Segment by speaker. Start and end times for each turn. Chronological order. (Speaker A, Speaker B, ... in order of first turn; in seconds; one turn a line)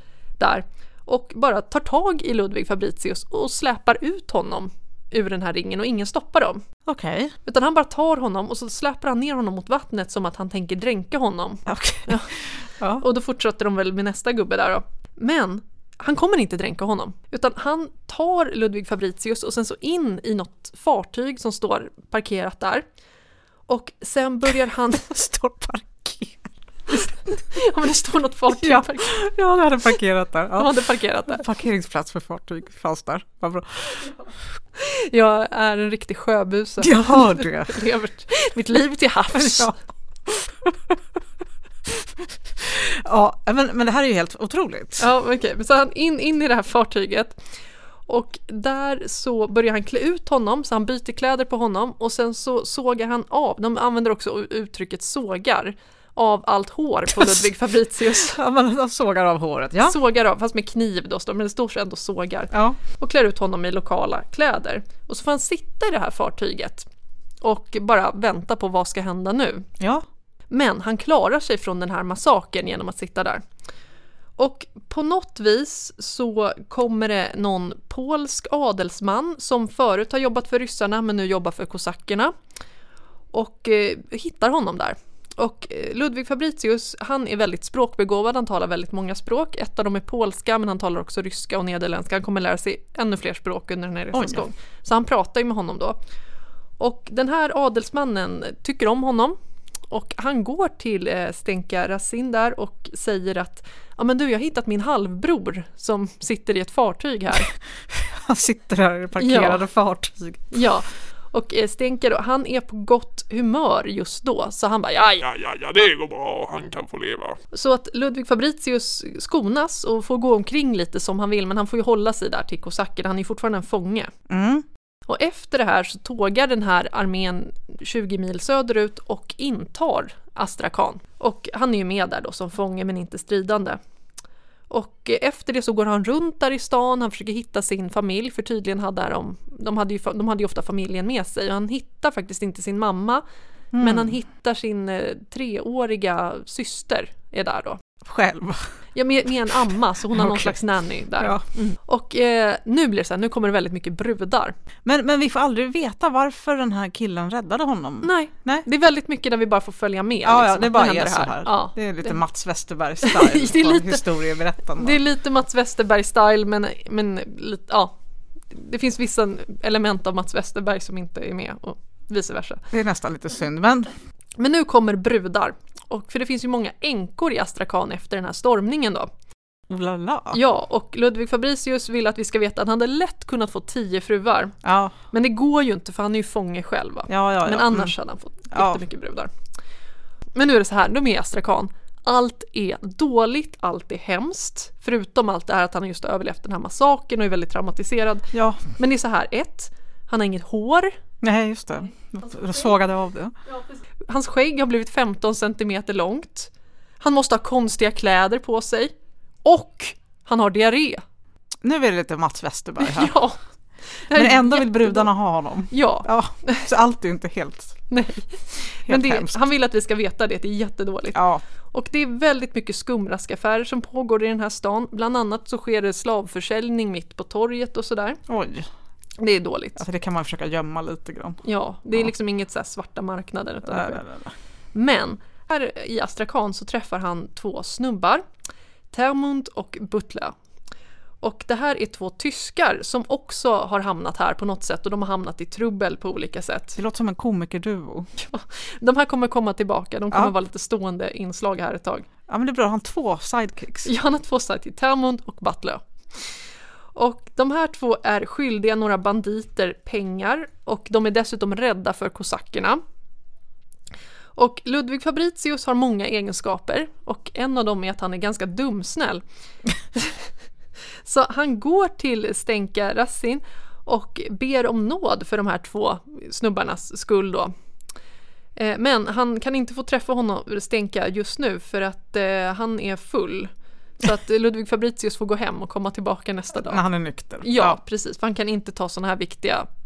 Speaker A: 0.4-6.6
Speaker B: 6.8-7.3
Speaker A: 7.5-12.3
Speaker B: 11.7-13.0
Speaker A: 13.0-22.8
Speaker A: 23.7-25.1
Speaker B: 24.9-26.5
Speaker A: 26.9-29.2
Speaker B: 28.6-34.1
Speaker A: 30.6-31.4
Speaker A: 34.8-39.8
Speaker B: 36.8-37.8
Speaker B: 39.3-39.7
Speaker B: 40.3-40.9
Speaker B: 41.9-45.1
Speaker A: 45.0-47.4
Speaker A: 48.1-58.4
Speaker B: 58.1-60.0
Speaker A: 59.8-66.9
Speaker B: 62.5-62.8
Speaker A: 67.4-69.7
Speaker B: 69.8-70.1
Speaker A: 70.5-73.4
Speaker A: 74.4-82.3
Speaker A: 83.3-96.0
Speaker B: 94.1-94.4
Speaker A: 96.8-99.4
Speaker A: 99.9-107.5
Speaker B: 107.9-110.6
Speaker A: 109.2-109.6
Speaker A: 110.5-115.2
Speaker C: 115.2-117.4
Speaker A: 117.5-124.1
Speaker B: 124.3-124.7
Speaker A: 125.1-133.8
Speaker A: 134.7-143.2
Speaker B: 143.7-144.1
Speaker A: 143.8-147.8
Speaker B: 148.0-148.7
Speaker A: 148.9-154.5
Speaker B: 150.1-150.6
Speaker B: 151.2-151.4
Speaker B: 154.8-158.7
Speaker A: 158.0-162.1
Speaker B: 160.2-165.0
Speaker A: 163.0-164.1
Speaker A: 164.8-167.9
Speaker A: 168.5-172.6
Speaker B: 172.7-173.9
Speaker A: 174.4-179.1
Speaker B: 179.7-180.4
Speaker A: 180.3-184.6
Speaker B: 184.6-184.9
Speaker A: 185.1-189.3
Speaker B: 187.1-187.9
Speaker B: 188.5-188.8
Speaker A: 190.4-200.9
Speaker B: 198.3-198.6
Speaker B: 201.2-203.3
Speaker A: 204.0-211.0
Speaker B: 211.6-213.2
Speaker A: 212.8-213.4
Speaker A: 214.0-215.1
Speaker B: 214.1-217.8
Speaker A: 215.7-216.7
Speaker A: 217.9-228.2
Speaker B: 218.9-219.4
Speaker B: 221.1-221.4
Speaker B: 228.3-228.7
Speaker A: 229.2-229.8
Speaker B: 229.8-231.4
Speaker A: 231.4-234.0
Speaker B: 233.7-234.3
Speaker A: 234.7-238.2
Speaker A: 238.9-240.3
Speaker A: 241.2-246.8
Speaker B: 246.8-248.1
Speaker A: 248.2-252.1
Speaker B: 252.3-253.9
Speaker A: 253.8-256.3
Speaker A: 256.9-262.8
Speaker A: 264.4-269.2
Speaker A: 269.9-270.2
Speaker A: 271.0-277.5
Speaker A: 278.6-286.8
Speaker B: 286.6-287.8
Speaker A: 287.4-289.7